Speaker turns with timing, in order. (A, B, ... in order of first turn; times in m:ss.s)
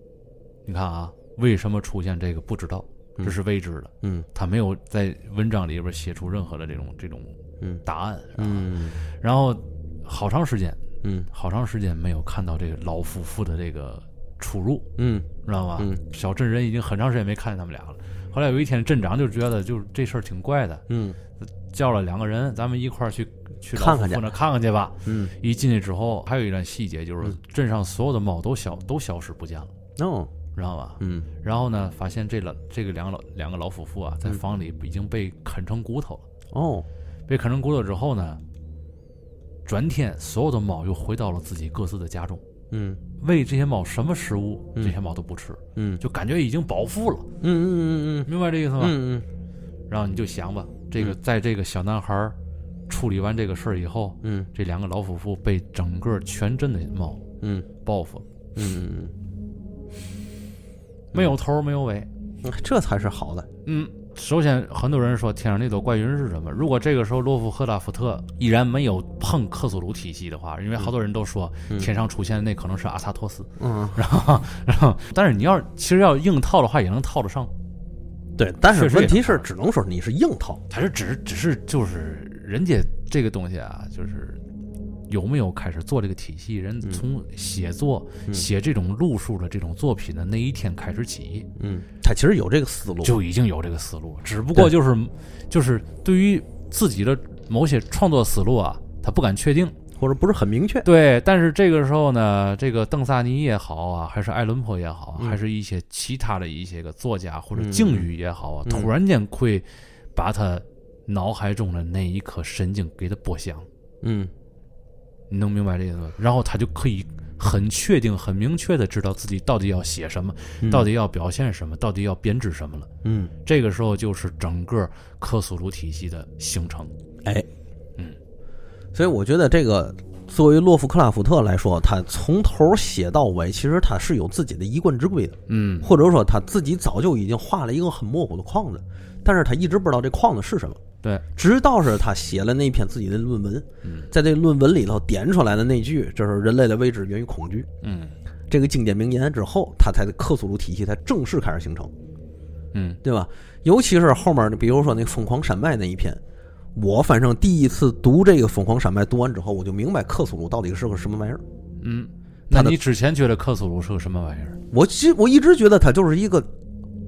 0:00.6-0:10.8 A
0:04.0-0:04.3 B
0:08.4-0:09.0 B
0:11.0-0:11.3 B
0:11.3-0:14.9 A
0:15.0-0:16.0 B
0:15.4-0:20.8 A
0:20.9-0:21.2 B
0:21.4-0:29.7 A
0:23.7-0:24.2 B
0:25.0-0:25.3 B
0:30.0-0:30.3 B
0:30.5-0:36.2 A
0:31.0-0:31.3 B
0:36.5-0:36.9 B
0:37.3-0:38.4 A
0:39.6-0:42.4 A
0:42.7-0:43.0 B
0:43.2-0:47.3 A
0:45.8-0:46.0 B
0:47.4-0:49.2 B
0:48.2-0:49.0 A
0:49.9-0:52.3 A
0:52.9-0:57.2 A
0:54.2-0:54.5 B
0:57.4-0:57.7 B
0:57.8-0:58.2 A
0:58.6-0:59.1 B
1:01.1-1:02.1 A
1:02.4-1:03.5 B
1:03.6-1:17.5 A
1:13.6-1:14.0 B
1:18.4-1:20.6 B
1:18.7-1:19.4 A
1:20.7-1:24.4 A
1:25.1-1:31.5 A
1:31.6-1:33.2 B
1:33.0-1:39.7 A
1:40.0-1:40.8 B
1:40.8-1:53.7 A
1:47.5-1:48.1 B
1:54.0-1:54.3 B
1:55.3-2:02.9 A
2:00.6-2:00.9 B
2:03.0-2:03.3 B
2:03.4-2:06.9 A
2:08.9-2:20.8 B
2:15.5-2:15.9 A
2:21.4-2:27.7 B
2:23.8-2:24.1 A
2:27.8-2:28.1 A
2:28.5-2:31.9 B
2:32.7-2:33.0 A
2:33.0-2:36.2 B
2:36.8-2:41.4 B
2:41.8-2:44.6 A
2:44.7-2:46.5 B